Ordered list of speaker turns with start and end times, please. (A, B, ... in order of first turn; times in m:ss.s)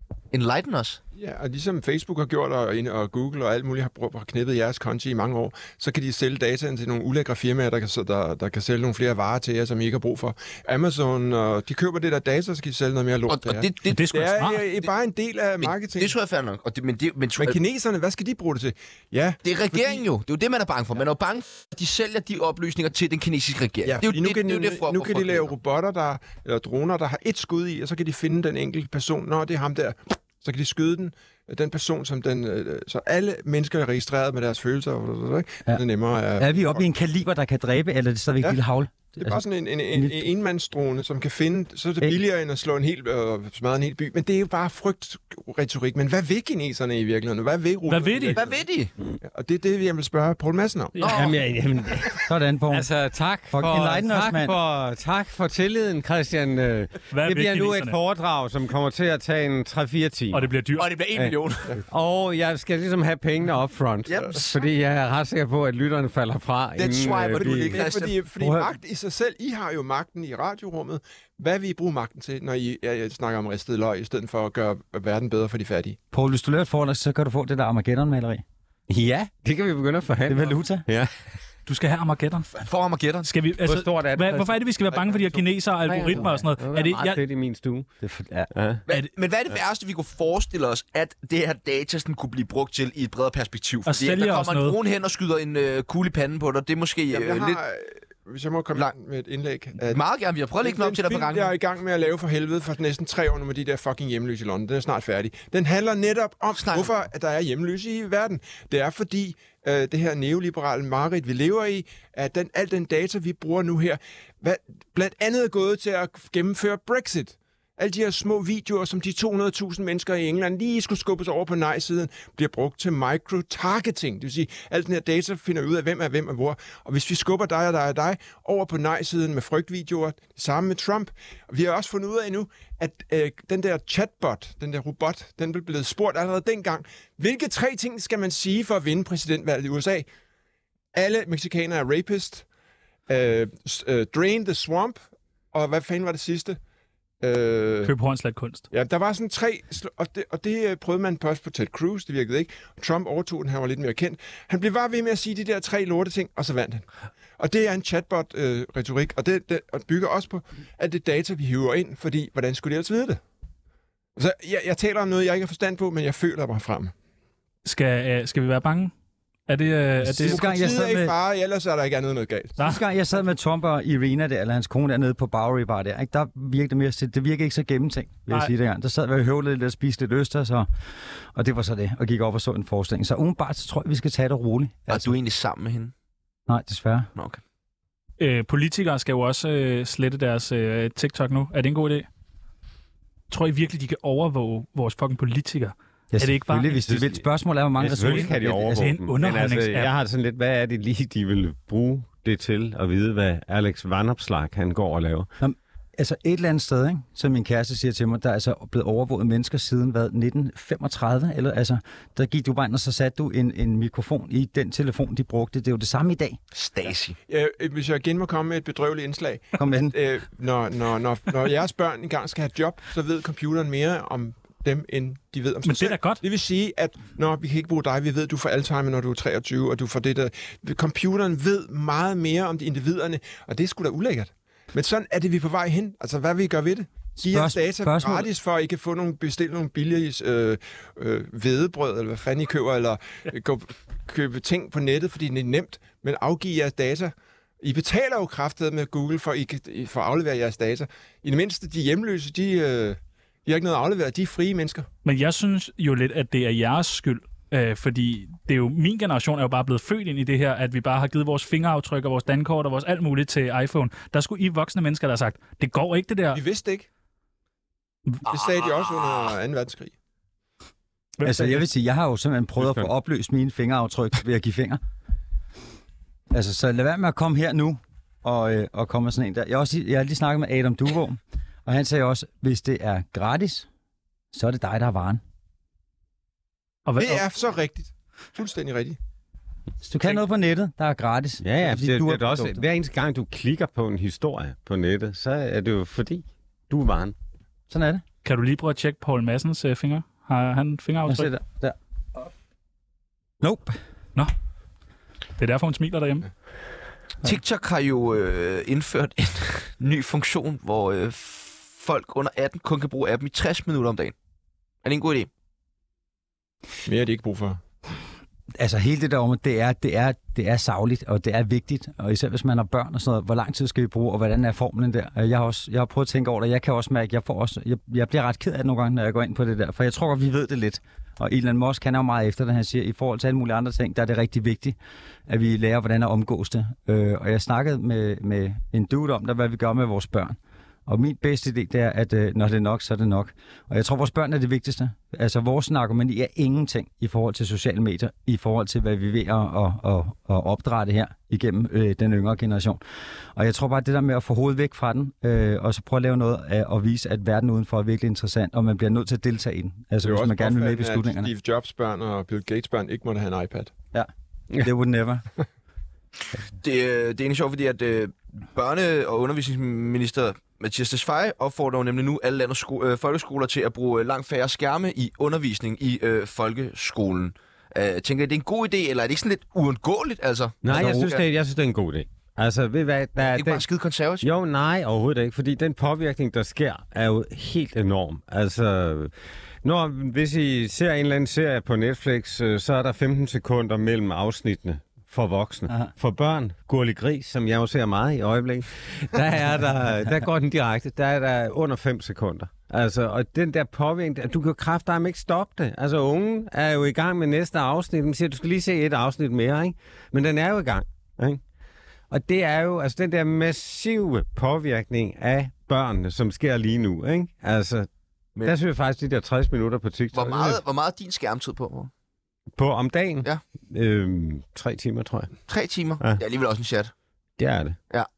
0:00.3-0:01.0 A
0:01.2-0:16.1 B
0:13.3-0:14.0 A
0:13.9-0:14.6 C
0:15.6-0:17.6 A
0:17.4-0:20.0 B
0:19.4-0:25.5 A
0:23.8-0:36.8 B
0:36.4-0:40.3 D
0:39.2-0:48.6 B
0:47.9-0:48.4 C
0:48.3-0:48.9 A
0:49.2-0:51.1 B
0:51.0-0:51.2 C
0:51.0-0:51.4 A
0:51.1-0:52.2 E
0:52.3-0:52.9 D
0:52.7-1:00.5 E
0:53.5-0:54.5 D
0:57.1-0:58.0 C
1:00.3-1:00.9 C
1:00.8-1:01.7 A
1:01.9-1:07.8 E
1:04.1-1:04.6 A
1:06.8-1:08.2 A
1:07.3-1:16.0 B
1:08.4-1:08.7 D
1:16.1-1:18.4 D
1:18.9-1:21.1 E
1:20.3-1:20.8 D
1:21.7-1:22.5 C
1:22.6-1:23.3 A
1:23.2-1:27.2 C
1:23.6-1:24.6 E
1:25.8-1:27.9 E
1:28.0-1:28.5 D
1:28.5-1:28.8 E
1:28.9-1:37.6 A
1:33.8-1:34.8 C
1:37.1-1:40.0 B
1:39.9-1:41.5 A
1:40.6-2:20.1 B
1:46.5-1:46.9 A
2:20.9-2:22.4 B
2:23.1-2:25.0 B
2:25.5-2:26.6 B
2:27.2-2:27.9 B
2:27.8-2:28.6 C
2:28.7-2:36.8 B
2:37.4-2:43.2 B
2:44.2-2:46.9 B
2:47.6-2:48.9 C
2:49.5-2:50.5 C
2:50.0-2:51.2 D
2:50.2-2:52.6 B
2:52.6-3:00.7 D
3:01.3-3:05.1 D
3:04.9-3:05.9 A
3:06.5-3:07.1 D
3:08.2-3:12.1 C
3:13.3-3:16.9 C
3:16.1-3:18.9 D
3:16.9-3:17.2 E
3:17.8-3:25.3 E
3:18.0-3:19.9 C
3:25.4-3:36.4 D
3:36.5-3:37.2 A
3:37.3-4:14.9 B
3:39.6-3:39.9 D
3:45.6-3:46.2 C
3:57.2-3:58.3 D
4:15.0-4:26.4 C
4:26.3-4:26.9 B
4:28.2-4:29.9 B
4:28.3-4:29.4 A
4:31.2-4:31.6 C
4:31.2-4:34.8 D
4:36.3-4:43.7 D
4:44.3-4:45.2 D
4:46.8-4:47.2 C
4:47.0-4:49.0 B
4:49.8-4:52.6 D
4:51.4-4:57.1 E
4:57.7-4:58.0 D
4:58.2-5:01.3 C
5:01.1-5:01.8 D
5:03.4-5:03.7 D
5:05.4-5:06.3 C
5:07.2-5:14.1 A
5:14.8-5:15.3 A
5:16.8-5:17.6 B
5:18.5-5:34.8 D
5:35.3-5:52.8 D
5:53.3-6:01.3 D
6:00.0-6:03.7 B
6:03.9-6:05.2 D
6:06.6-6:21.2 A
6:20.6-6:23.6 E
6:20.7-6:21.1 D
6:23.2-6:24.3 A
6:24.2-6:29.1 E
6:29.6-6:51.4 E
6:52.1-6:57.9 E
6:58.4-7:00.6 E
7:00.1-7:01.9 A
7:02.6-7:05.3 E
7:05.5-7:06.9 A
7:07.4-7:07.8 E